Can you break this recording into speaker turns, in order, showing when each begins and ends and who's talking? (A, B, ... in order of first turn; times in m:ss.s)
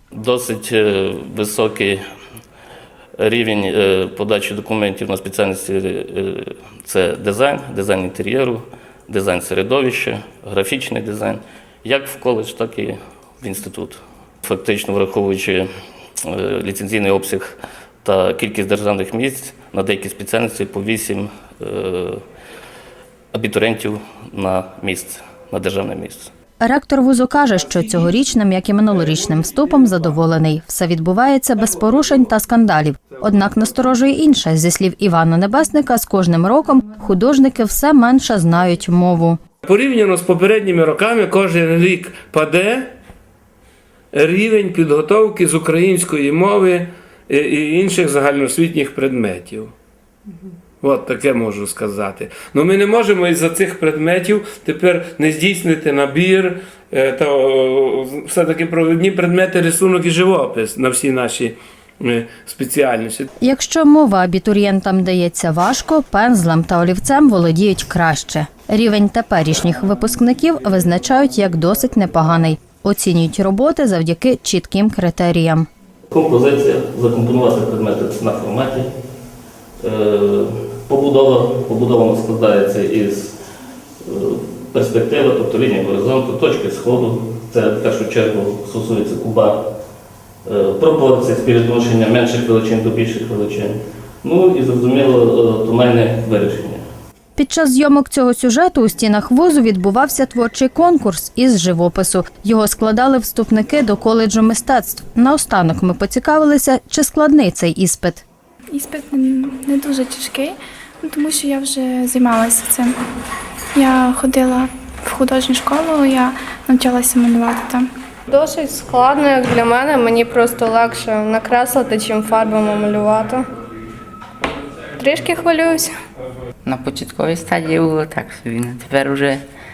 0:00.1-0:02.0 A
0:03.2-0:15.7 A
0:16.2-0:22.2 A
0:23.3-0:26.3 A
0:26.6-0:39.4 B
0:39.6-0:42.9 C
0:44.1-0:49.7 C
0:50.8-1:03.3 C
1:03.4-1:15.7 B
1:16.1-1:18.9 A
1:19.8-1:23.4 A
1:24.0-1:29.6 A
1:30.4-1:36.8 A
1:37.4-1:48.2 B
1:48.7-1:53.0 D
1:53.8-1:57.9 D
1:58.3-2:03.4 E
2:05.0-2:05.9 E
2:06.6-2:09.4 F